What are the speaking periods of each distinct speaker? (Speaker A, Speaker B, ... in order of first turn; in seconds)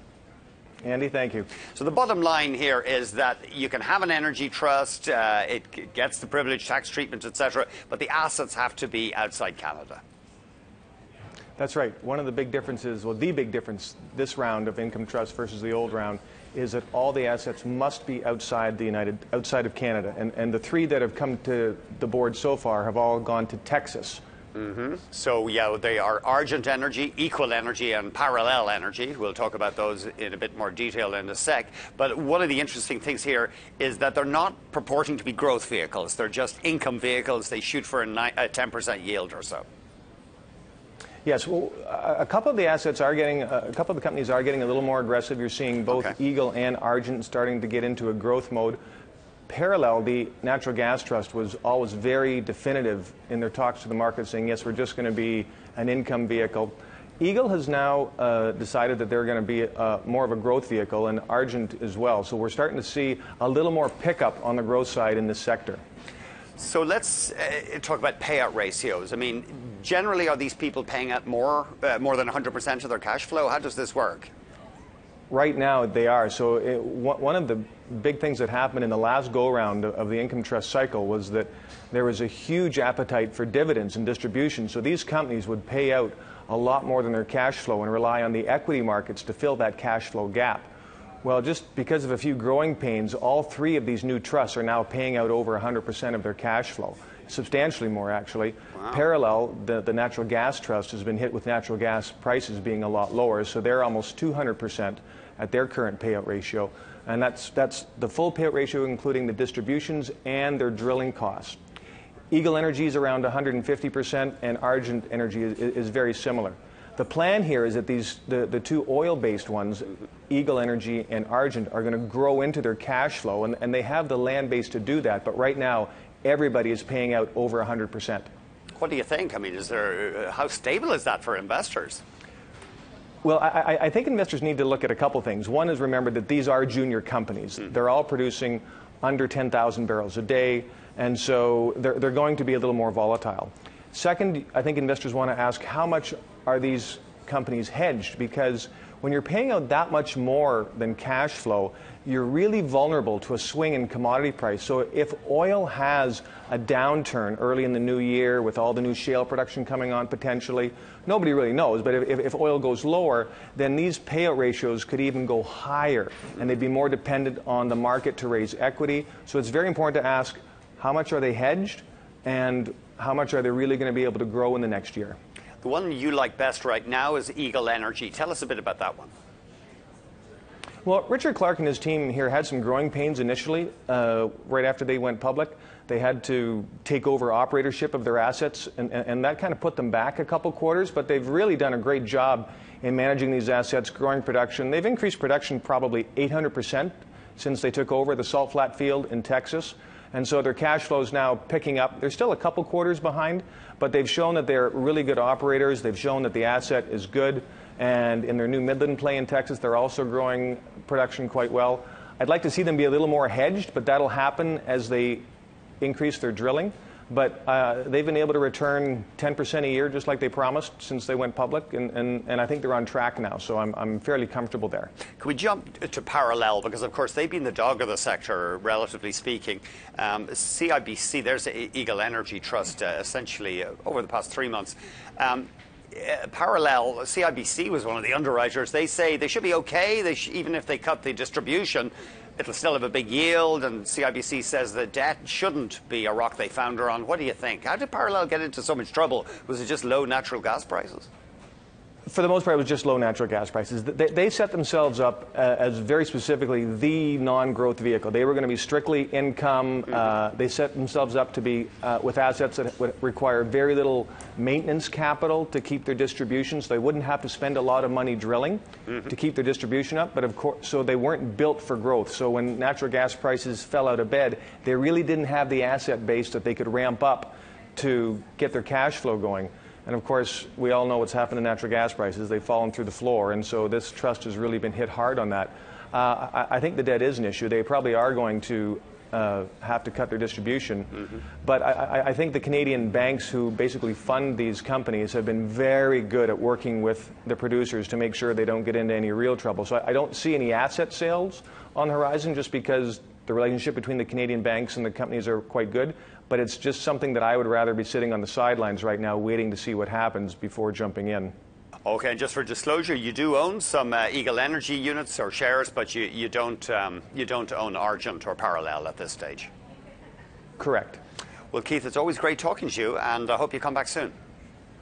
Speaker A: 0.8-1.5, 11.6-24.2, 41.2-48.8, 49.5-65.8, 75.3-90.7, 91.2-111.6, 112.3-128.3, 133.2-175.2, 180.8-215.2, 215.8-224.9, 252.1-311.3, 320.6-321.0
Speaker B: 1.7-10.0, 24.6-39.6, 66.6-74.3, 128.8-132.0, 175.6-179.1, 225.2-251.1, 311.9-319.5, 321.5-324.1